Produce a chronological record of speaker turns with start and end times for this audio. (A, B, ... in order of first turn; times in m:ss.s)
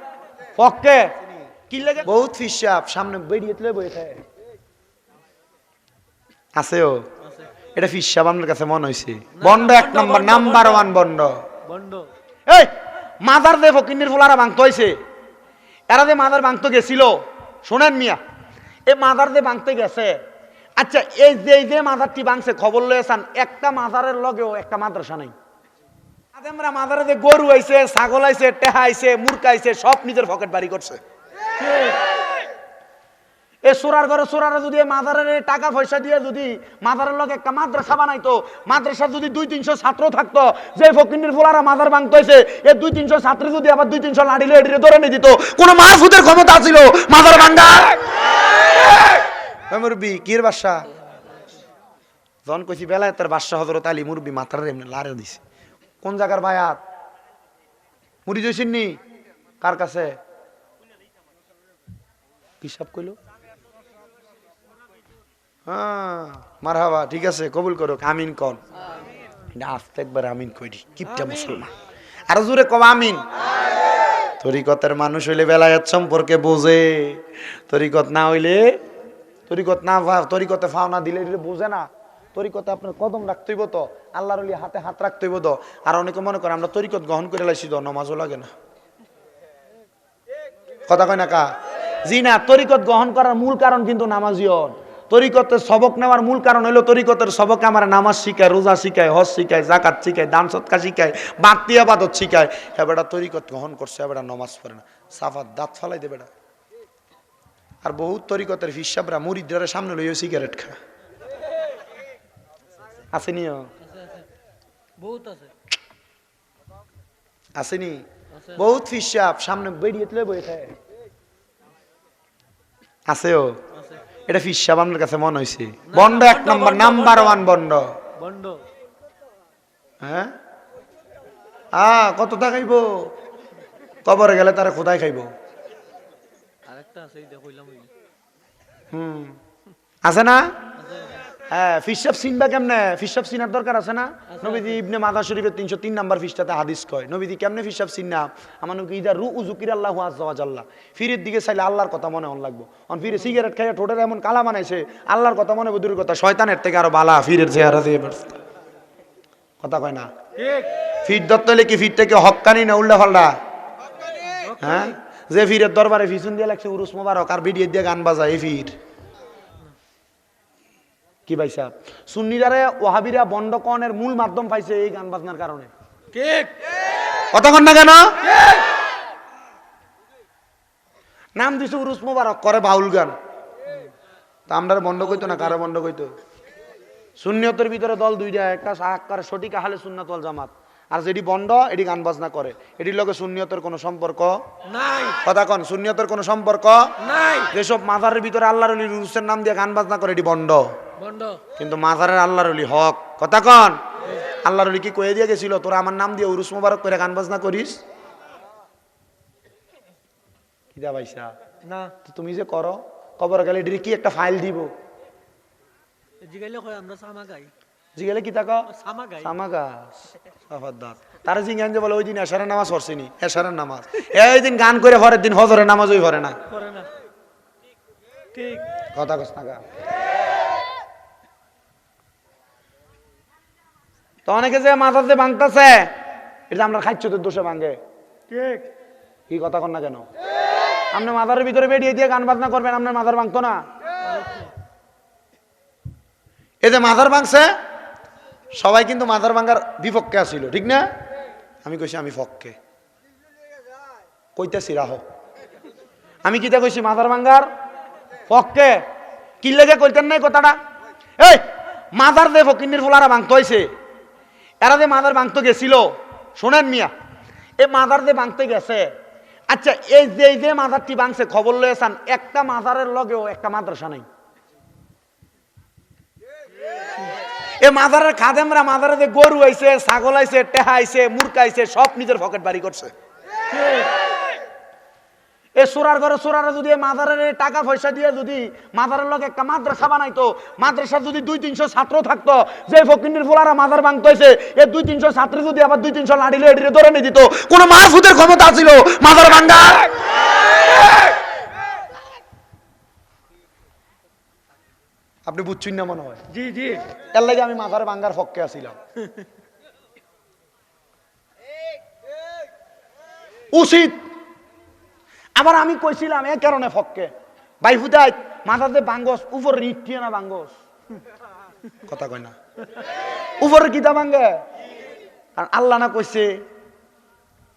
0:00.6-0:04.2 A
0:06.6-0:07.1 A
0:07.2-0:07.5 B
0:07.8-0:11.4 A
0:09.4-0:10.9 B
0:11.6-0:12.1 B
0:12.5-0:15.0 A
0:15.9-0:18.2 A
0:18.9-0:20.2 A
0:20.8-0:25.3 A
0:26.4-0:31.0 A
0:31.6-0:32.0 B
0:33.6-0:48.1 A
0:49.7-0:50.9 A
0:52.4-0:55.4 A
0:56.0-0:56.8 A
0:58.3-0:59.0 A
0:59.6-1:00.2 A
1:02.6-1:03.2 A
1:05.7-1:08.6 A
1:09.5-1:11.7 A
1:12.3-1:13.3 A
1:14.4-1:18.8 A
1:19.5-1:28.5 A
1:30.9-1:31.5 A
1:32.0-1:46.3 A
1:47.8-1:50.8 A
1:53.1-1:53.7 A
1:53.8-1:54.3 B
1:55.0-1:55.5 B
1:57.6-2:00.7 A
1:58.4-1:58.7 B
2:03.1-2:03.6 A
2:04.3-2:08.0 A
2:05.9-2:07.4 B
2:08.2-2:08.7 B
2:10.0-2:10.3 A
2:11.7-2:13.1 A
2:14.0-2:15.3 A
2:16.6-2:17.9 B
2:18.9-2:19.4 A
2:20.0-2:20.6 A
2:20.8-2:21.2 B
2:21.5-2:38.4 A
2:24.3-2:24.8 B
2:39.6-2:40.1 A
2:40.4-2:40.7 B
2:41.0-2:43.4 A
2:44.3-2:44.9 B
2:44.6-2:48.8 A
2:51.3-2:55.7 A
2:56.1-2:56.5 B
2:57.3-2:58.2 A
2:58.3-2:58.6 B
3:01.4-3:03.2 A
3:04.5-3:06.1 A
3:07.2-3:14.4 A
3:14.7-3:15.2 B
3:15.2-3:17.0 A
3:17.0-3:17.5 B
3:17.5-3:20.8 A
3:21.0-3:21.4 B
3:21.6-3:23.8 A
3:24.4-3:27.8 A
3:30.7-3:31.3 A
3:31.6-3:32.0 B
3:32.0-3:34.7 A
3:36.2-3:37.5 B
3:38.0-3:46.4 A
3:38.7-3:39.3 B
3:46.5-3:46.9 B
3:48.3-3:48.7 B
3:48.9-3:49.6 A
3:54.3-3:55.9 A
3:56.5-3:57.8 A
3:58.3-3:58.7 B
3:59.3-4:00.1 A
4:00.9-4:03.7 A
4:04.1-4:04.5 B
4:06.6-4:07.6 A
4:08.5-4:10.9 A
4:11.6-4:12.6 A
4:14.4-4:15.0 A
4:16.2-4:17.5 A
4:18.3-4:18.9 A
4:19.4-4:20.6 A
4:21.2-4:23.7 A
4:24.6-4:26.9 A
4:27.6-4:28.9 A
4:29.5-4:34.1 A
4:37.6-4:42.9 A
4:43.5-4:43.9 B
4:45.6-5:00.0 A
5:05.3-5:06.3 A
5:06.3-5:06.9 B
5:07.1-5:08.8 A
5:13.5-5:14.1 A
5:15.4-5:17.1 A
5:17.6-5:20.6 A
5:21.8-5:22.4 A
5:23.4-5:24.4 A
5:25.4-5:26.4 A